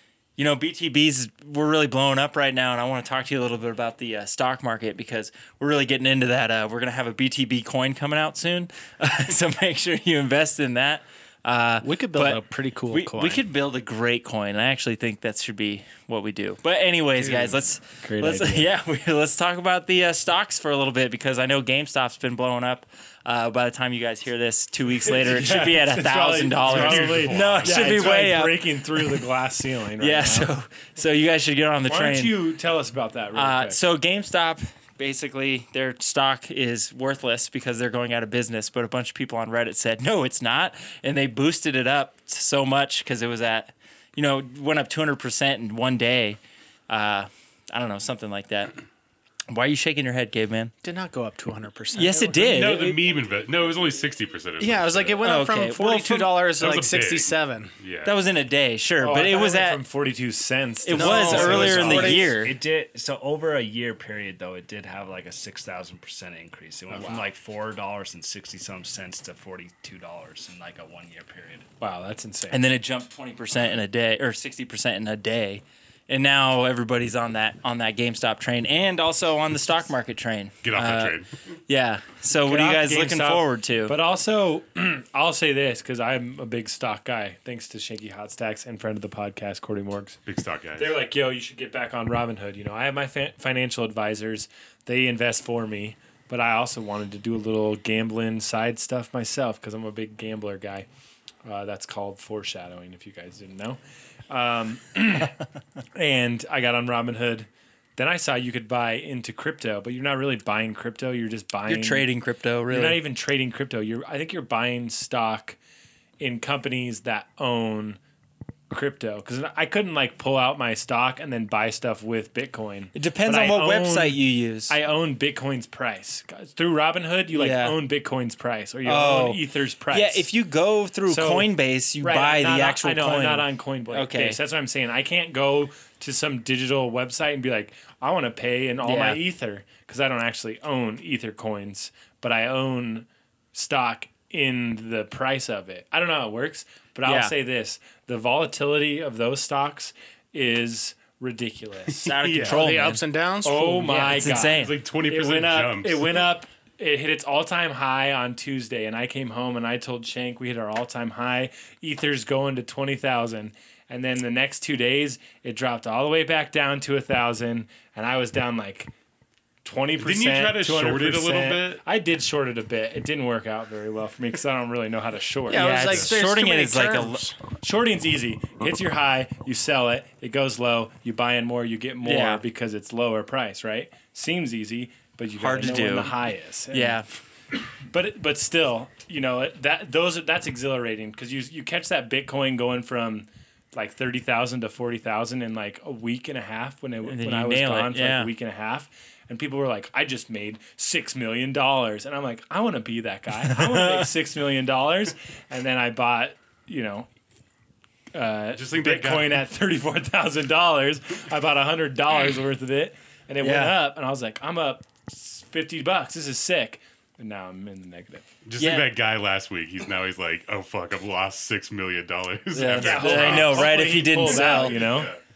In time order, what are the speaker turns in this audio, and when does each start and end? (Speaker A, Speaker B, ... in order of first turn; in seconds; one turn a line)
Speaker A: 0.4-29.2
Speaker B: 11.8-13.4
Speaker C: 17.2-18.7
Speaker C: 25.0-30.5
Speaker D: 26.6-28.1
Speaker A: 30.0-32.4
Speaker C: 31.9-33.8
Speaker A: 33.3-48.7
Speaker A: 49.5-50.7
Speaker B: 50.8-53.0
Speaker A: 52.0-52.9
Speaker D: 52.5-55.2
Speaker B: 54.6-57.7
Speaker A: 55.2-56.4
Speaker D: 56.6-58.2
Speaker A: 58.0-59.8
Speaker C: 59.0-62.4
Speaker A: 60.8-62.6
Speaker B: 60.9-62.4
Speaker E: 61.9-71.7
Speaker C: 66.9-67.3
Speaker C: 71.8-72.7
Speaker A: 72.5-84.0
Speaker D: 80.6-81.3
Speaker C: 82.4-90.2
Speaker D: 90.3-91.0
Speaker C: 90.8-100.9
Speaker C: 101.4-105.4
Speaker C: 106.0-112.1
Speaker A: 111.7-113.0
Speaker C: 112.7-115.6
Speaker C: 116.2-118.0
Speaker C: 118.7-130.3
Speaker A: 123.0-124.8
Speaker A: 127.3-127.8
Speaker A: 128.8-134.4
Speaker C: 131.1-152.1
Speaker A: 138.8-139.2
Speaker A: 147.0-147.3
Speaker A: 152.0-153.0
Speaker D: 152.1-152.7
Speaker B: 152.5-154.1
Speaker C: 153.4-168.9
Speaker A: 153.8-154.7
Speaker D: 154.2-156.2
Speaker C: 169.6-176.1
Speaker D: 170.0-171.8
Speaker B: 175.5-177.4
Speaker A: 175.5-177.3
Speaker C: 177.6-187.0
Speaker A: 182.0-182.4
Speaker A: 185.4-186.2
Speaker A: 186.7-187.1
Speaker C: 187.9-207.1
Speaker A: 197.0-198.3
Speaker A: 203.5-204.0
Speaker C: 208.1-218.3
Speaker D: 208.5-209.4
Speaker A: 213.4-213.8
Speaker D: 218.4-225.2
Speaker A: 218.6-218.9
Speaker A: 222.5-224.8
Speaker C: 222.6-225.1